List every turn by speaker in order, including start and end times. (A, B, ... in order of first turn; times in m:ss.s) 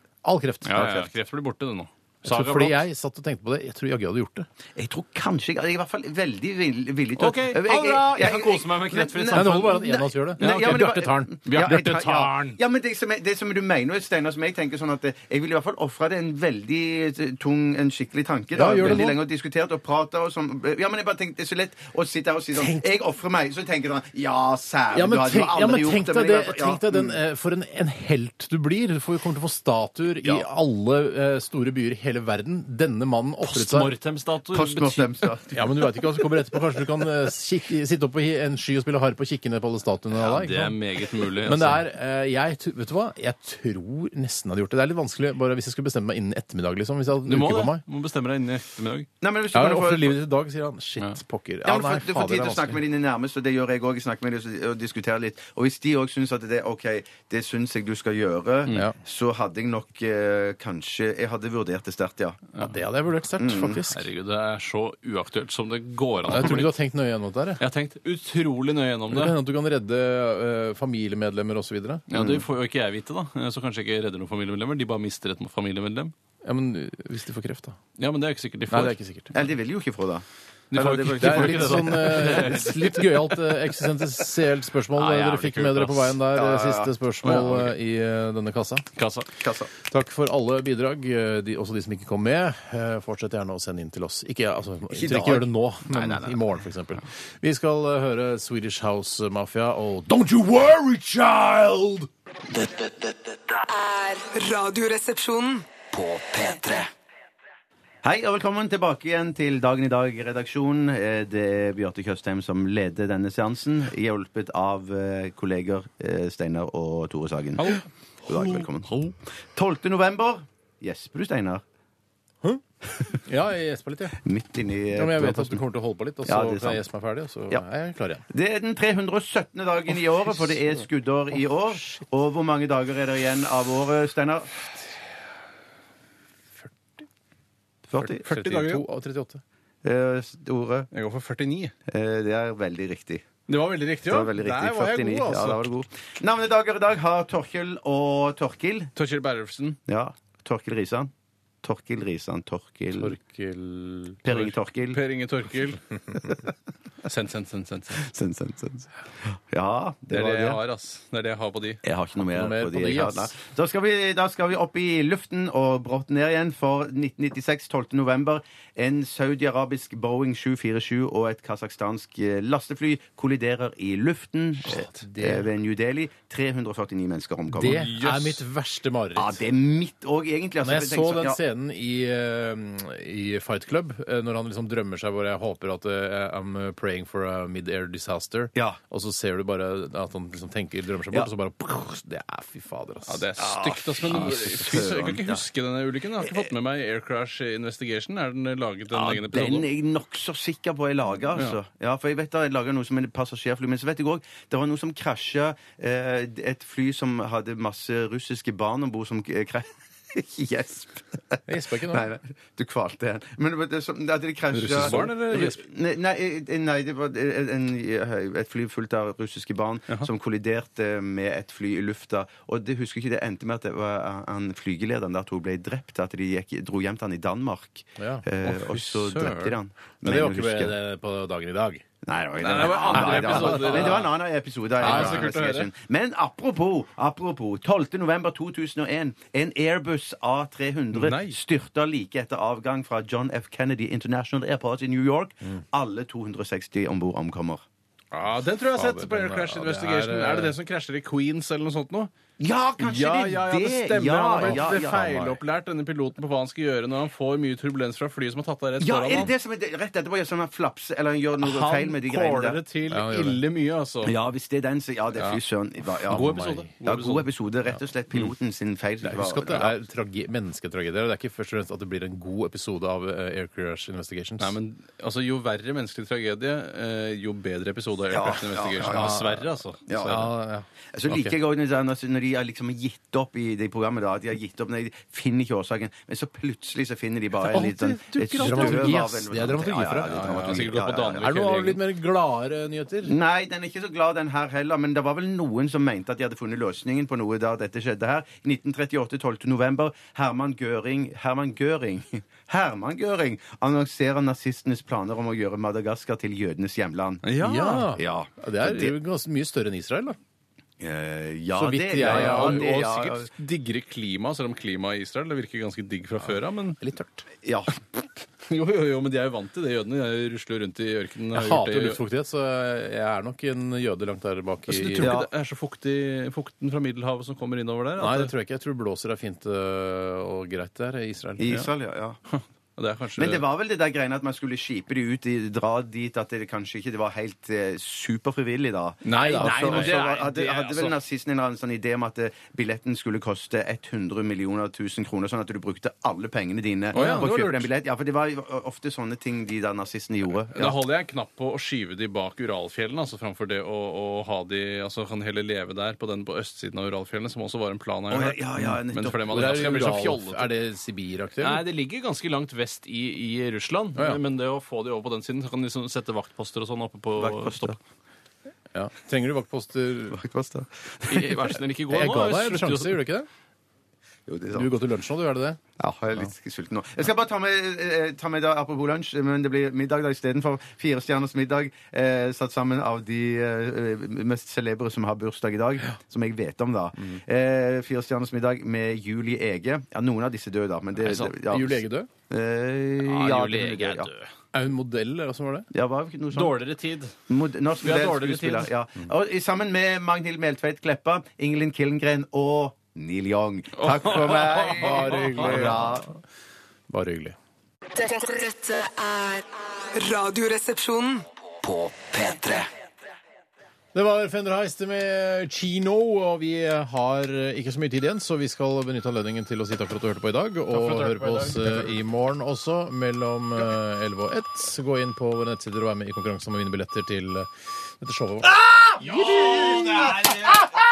0:00.2-0:01.1 A
0:00.6-0:02.8 B
0:02.2-0:04.5 A
0:04.8-0:27.2 C
0:07.2-0:09.8 B
0:09.3-0:12.3 A
0:10.4-0:12.6 B
0:18.5-0:19.2 A
0:22.6-0:22.9 A
0:24.9-0:33.9 A
0:33.4-0:35.3 B
0:34.5-0:36.1 C
0:35.5-0:47.8 A
0:40.2-0:41.8 B
0:47.2-0:49.1 B
0:49.2-0:50.2 C
0:49.5-0:52.8 A
0:51.6-1:02.5 C
0:58.7-0:59.0 A
1:02.6-1:04.1 A
1:03.4-1:03.8 C
1:03.9-1:06.7 B
1:06.3-1:07.6 A
1:07.6-1:09.4 B
1:09.1-1:12.0 A
1:12.1-1:16.1 B
1:12.1-1:12.4 C
1:16.4-1:17.8 A
1:18.0-1:19.0 B
1:18.7-1:19.4 A
1:19.3-1:20.2 C
1:20.7-1:23.5 B
1:20.8-1:28.9 A
1:20.9-1:22.3 C
1:25.0-1:26.2 B
1:26.4-1:26.9 C
1:27.2-1:27.7 B
1:29.0-1:29.3 B
1:29.4-1:29.7 C
1:29.9-1:42.1 A
1:34.9-1:35.5 C
1:42.5-1:43.6 D
1:43.7-1:45.7 E
1:45.9-1:46.9 D
1:48.0-1:59.0 C
1:58.4-1:59.1 B
1:59.5-2:01.6 C
2:03.2-2:04.2 A
2:04.2-2:05.6 C
2:04.9-2:08.2 A
2:06.2-2:06.8 C
2:08.3-2:14.6 C
2:17.9-2:18.2 C
2:18.0-2:19.4 A
2:18.2-2:18.8 B
2:19.8-2:20.9 C
2:20.9-2:21.7 B
2:21.9-2:23.2 C
2:23.5-2:25.6 B
2:24.0-2:28.9 C
2:29.0-2:29.8 B
2:29.9-2:31.1 C
2:31.6-2:33.2 C
2:33.0-2:34.3 A
2:34.2-2:35.0 C
2:34.9-2:35.8 B
2:37.0-2:38.0 B
2:38.0-2:40.6 C
2:40.1-2:41.8 B
2:41.8-2:57.9 C
2:42.2-2:43.4 A
2:54.7-2:55.5 A
2:57.5-2:59.4 A
2:57.7-2:58.4 B
2:59.2-3:01.4 C
3:00.6-3:13.2 A
3:08.6-3:08.8 C
3:13.0-3:19.7 B
3:13.4-3:15.4 C
3:18.9-3:50.7 C
3:31.5-3:32.1 A
3:34.5-3:35.6 B
3:48.0-3:48.3 A
3:48.4-3:49.5 B
3:50.0-3:51.8 A
3:52.0-4:07.6 C
3:52.4-3:54.1 B
3:52.6-3:54.1 A
3:54.8-3:55.7 B
3:54.8-3:55.3 A
4:00.9-4:01.4 B
4:08.1-4:12.1 B
4:08.7-4:10.5 A
4:12.4-4:15.2 C
4:12.8-4:19.3 B
4:14.4-4:15.4 A
4:18.8-4:22.6 C
4:21.4-4:24.1 B
4:22.9-4:23.4 A
4:24.0-4:29.8 C
4:26.0-4:26.7 A
4:26.1-4:27.3 B
4:29.0-4:34.6 A
4:34.4-4:40.3 B
4:38.1-4:39.2 C
4:38.8-4:41.4 A
4:39.9-4:40.3 C
4:40.9-4:51.3 C
4:47.4-4:53.1 A
4:48.4-4:48.9 B
4:50.3-4:51.8 B
4:53.0-5:07.2 C
5:07.2-5:07.9 B
5:07.4-5:10.2 A
5:08.0-5:09.0 C
5:10.8-5:13.3 C
5:11.6-5:12.7 A
5:12.0-5:16.8 B
5:16.8-5:17.3 A
5:17.4-5:17.7 C
5:18.4-5:22.0 B
5:21.3-5:25.1 A
5:24.7-5:28.3 B
5:25.0-5:25.3 C
5:28.0-5:31.5 A
5:31.4-5:32.2 C
5:32.3-5:33.4 B
5:33.2-5:50.7 C
5:39.0-5:41.0 B
5:39.1-5:40.0 A
5:46.9-5:47.7 B
5:46.9-5:47.5 A
5:50.5-6:00.5 B
5:58.1-6:00.0 C
5:59.3-6:01.6 A
6:01.4-6:07.8 B
6:04.0-6:04.2 A
6:07.2-6:07.8 C
6:08.7-6:10.2 A
6:10.1-6:11.4 C
6:11.1-6:13.0 B
6:11.9-6:13.3 A
6:14.3-6:14.8 C
6:14.5-6:15.6 A
6:15.8-6:34.1 C
6:31.0-6:31.4 B
6:31.4-6:32.1 A
6:33.0-6:34.3 B
6:34.5-6:35.7 A
6:35.7-6:36.6 C
6:36.3-6:37.2 B
6:37.3-6:46.1 C
6:37.8-6:38.7 B
6:43.8-6:45.8 B
6:44.6-6:46.1 A
6:46.9-6:47.4 A
6:47.9-6:51.3 E
6:51.6-6:52.7 D
6:53.9-7:10.4 A
7:00.7-7:01.9 B
7:09.0-7:10.7 B